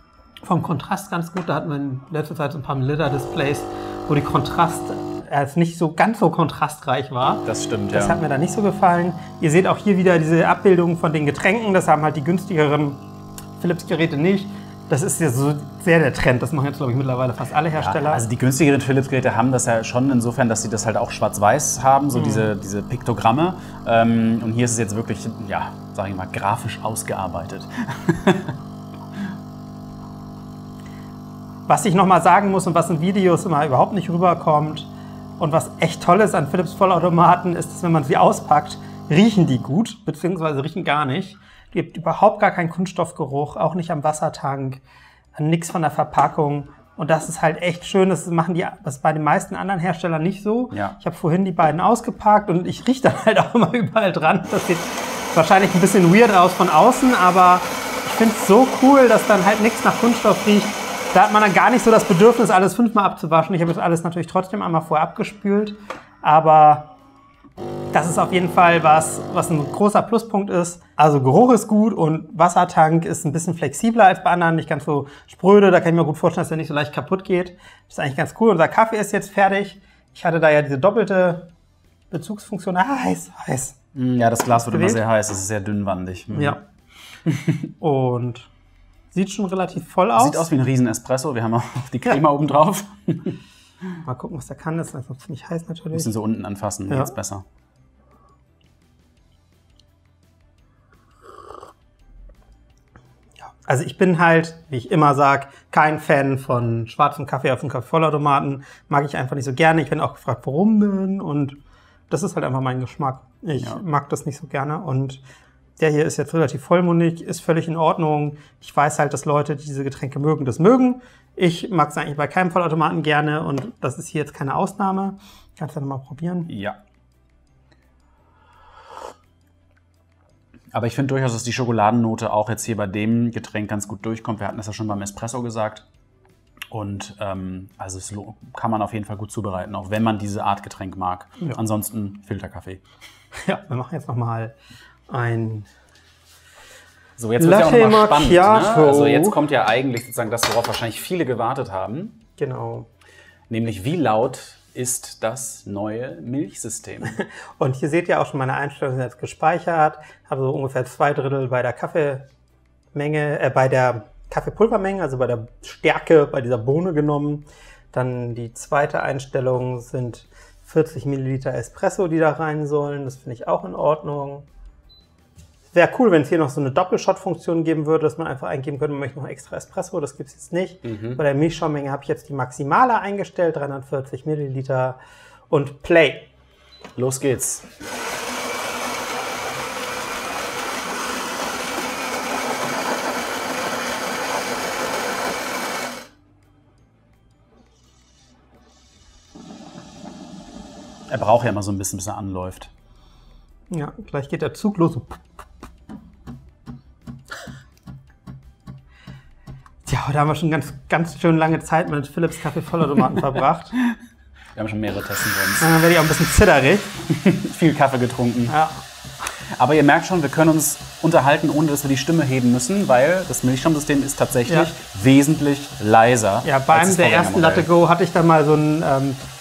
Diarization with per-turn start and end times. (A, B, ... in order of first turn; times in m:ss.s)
0:00.4-0:13.0 A
0:07.4-0:08.2 B
0:13.6-0:18.2 A
0:17.7-0:28.5 B
0:22.1-0:22.5 A
0:31.7-0:44.8 A
0:45.3-1:06.9 A
1:07.9-1:21.5 A
1:22.1-1:23.8 A
1:23.9-1:26.6 B
1:24.6-1:25.0 A
1:26.3-1:26.6 A
1:27.2-1:27.7 B
1:27.8-1:28.5 A
1:29.1-1:30.5 A
1:30.2-1:33.4 B
1:34.0-1:36.1 A
1:35.9-1:37.4 B
1:36.9-1:37.1 A
1:43.6-1:51.6 A
1:52.1-1:55.2 A
1:55.8-2:06.5 A
2:06.5-2:06.8 B
2:10.7-2:15.8 B
2:16.7-2:22.8 B
2:23.4-2:24.5 A
2:25.1-2:25.7 A
2:27.2-2:32.2 B
2:27.4-2:29.4 A
2:32.4-2:32.9 A
2:33.5-2:37.2 B
2:37.2-2:42.2 A
2:42.9-2:54.5 A
2:55.7-3:05.0 A
3:00.8-3:01.2 B
3:05.5-3:06.3 A
3:07.0-3:07.6 B
3:21.1-3:22.7 B
3:23.7-3:25.2 A
3:29.8-3:33.8 A
3:34.5-3:35.7 B
3:35.6-3:37.0 A
3:37.0-3:38.5 B
3:38.5-3:38.8 A
3:39.6-3:47.7 B
3:46.4-3:49.2 A